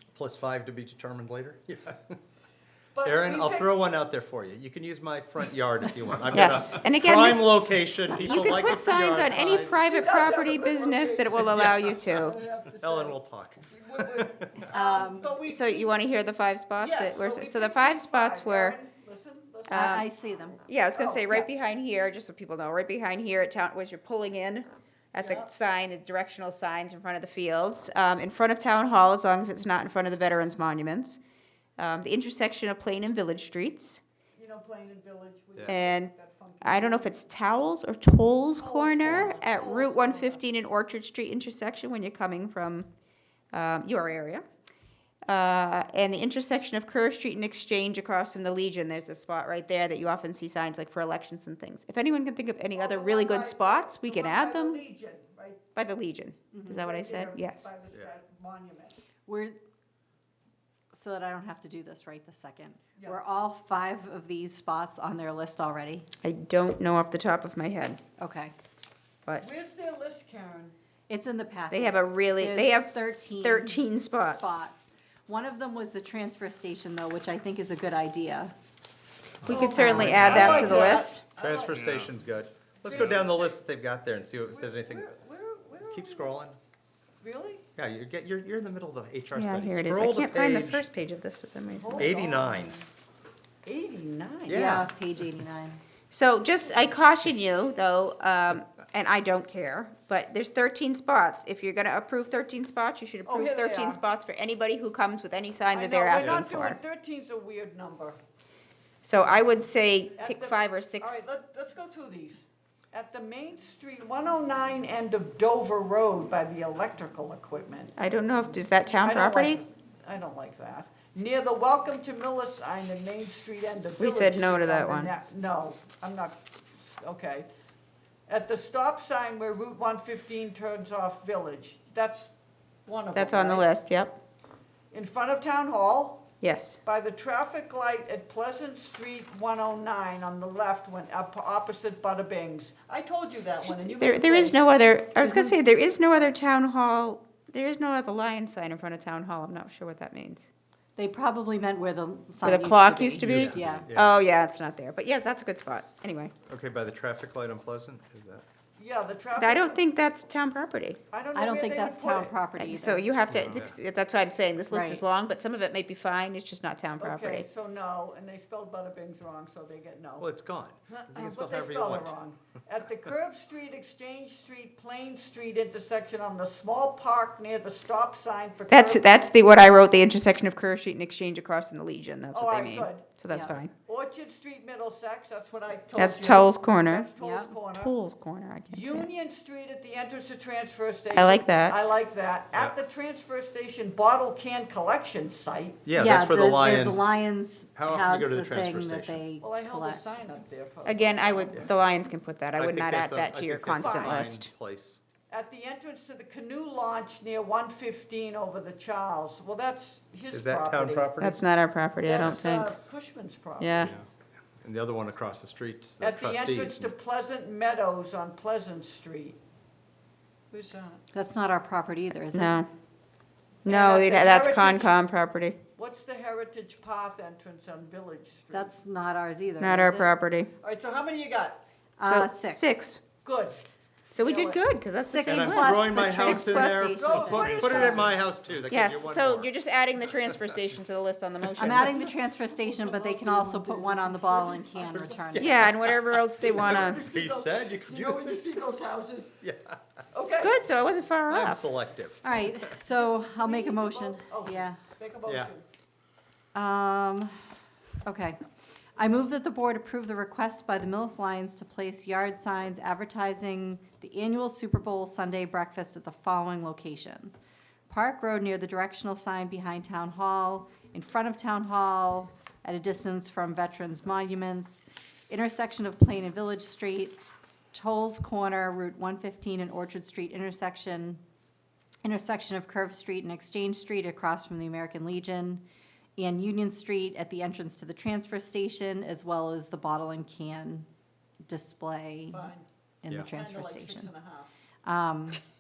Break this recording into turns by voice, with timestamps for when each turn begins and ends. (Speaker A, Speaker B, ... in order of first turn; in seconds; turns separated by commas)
Speaker A: 0.1-2.2, Speaker B: 3.0-3.8, Speaker A: 3.0-9.9, Speaker C: 6.3-12.4, Speaker B: 9.7-16.0, Speaker A: 12.8-14.7, Speaker D: 14.7-15.3, Speaker C: 15.5-18.8, Speaker B: 16.8-20.0, Speaker C: 19.7-20.1, Speaker D: 19.7-21.5, Speaker C: 20.6-31.2, Speaker B: 25.2-25.5, Speaker C: 31.8-34.0, Speaker B: 34.3-37.2, Speaker C: 35.7-42.9, Speaker B: 38.6-40.4, Speaker C: 43.5-44.4, Speaker C: 45.3-54.8, Speaker B: 52.7-55.6, Speaker C: 55.8-57.7, Speaker D: 56.5-56.8, Speaker B: 56.7-59.0, Speaker D: 59.3-59.6, Speaker D: 60.9-66.1, Speaker C: 66.2-68.0, Speaker D: 68.2-68.5, Speaker B: 69.4-70.8, Speaker D: 71.1-78.5, Speaker C: 71.7-74.6, Speaker C: 79.4-81.2, Speaker B: 79.5-81.8, Speaker D: 79.5-80.3, Speaker A: 80.0-85.1, Speaker B: 82.8-83.6, Speaker B: 84.5-86.5, Speaker A: 85.9-86.6, Speaker B: 87.2-87.7, Speaker A: 87.8-90.9, Speaker C: 89.3-92.2, Speaker B: 91.7-92.8, Speaker A: 92.0-92.8, Speaker B: 93.7-94.8, Speaker A: 94.5-94.9, Speaker D: 94.5-95.8, Speaker C: 96.1-106.8, Speaker B: 103.2-104.0, Speaker B: 105.7-108.2, Speaker A: 106.2-106.5, Speaker C: 109.0-111.2, Speaker B: 110.2-117.9, Speaker C: 118.0-119.6, Speaker B: 119.0-127.5, Speaker C: 124.0-125.1, Speaker B: 128.3-132.3, Speaker B: 132.9-133.7, Speaker C: 133.1-134.2, Speaker B: 134.9-136.3, Speaker C: 136.4-136.8, Speaker B: 136.8-144.7, Speaker C: 143.6-150.5, Speaker D: 145.2-145.6, Speaker D: 151.0-153.9, Speaker C: 152.4-156.3, Speaker A: 153.2-154.1, Speaker A: 156.5-158.4, Speaker B: 158.8-159.8, Speaker C: 159.4-161.0, Speaker B: 161.1-162.3, Speaker D: 161.3-163.2, Speaker C: 162.6-167.5, Speaker A: 163.3-163.8, Speaker D: 164.7-165.0, Speaker B: 167.0-170.3, Speaker A: 170.2-172.2, Speaker B: 170.9-179.3, Speaker C: 178.7-183.7, Speaker B: 182.3-183.1, Speaker D: 183.3-183.6, Speaker B: 183.8-188.0, Speaker C: 186.0-187.1, Speaker D: 187.2-187.6, Speaker C: 187.7-189.1, Speaker B: 188.7-195.8, Speaker C: 191.1-191.8, Speaker A: 195.9-197.1, Speaker D: 195.9-200.2, Speaker A: 197.8-199.2, Speaker B: 199.4-201.7, Speaker C: 200.9-204.5, Speaker A: 202.6-205.0, Speaker B: 203.7-204.3, Speaker B: 205.3-211.1, Speaker A: 210.3-211.4, Speaker C: 211.2-212.7, Speaker B: 212.0-213.9, Speaker C: 213.6-213.9, Speaker A: 214.6-216.9, Speaker B: 216.0-219.4, Speaker B: 220.5-221.0, Speaker D: 221.1-222.6, Speaker C: 222.3-222.7, Speaker B: 223.7-225.0, Speaker C: 223.7-225.6, Speaker B: 225.8-228.7, Speaker D: 228.5-230.1, Speaker C: 229.6-230.5, Speaker B: 230.6-231.6, Speaker D: 232.0-232.8, Speaker C: 232.1-233.0, Speaker B: 233.2-233.6, Speaker C: 234.1-237.9, Speaker B: 234.2-234.6, Speaker D: 235.1-238.1, Speaker A: 235.2-239.5, Speaker B: 236.7-238.2, Speaker C: 238.7-242.0, Speaker D: 241.6-245.7, Speaker B: 241.7-245.3, Speaker A: 245.1-246.0, Speaker C: 245.4-247.0, Speaker B: 246.5-249.3, Speaker A: 246.6-248.4, Speaker A: 249.4-249.8, Speaker B: 250.1-250.7, Speaker C: 250.4-251.7, Speaker A: 251.3-252.5, Speaker D: 252.2-254.8, Speaker B: 253.0-255.7, Speaker A: 255.3-255.5, Speaker D: 256.5-257.3, Speaker D: 258.1-258.4, Speaker D: 259.0-281.2, Speaker D: 282.0-285.6, Speaker D: 286.2-290.9, Speaker D: 291.4-292.5, Speaker B: 292.3-292.7, Speaker D: 293.0-294.1, Speaker B: 293.2-294.5, Speaker D: 294.9-295.4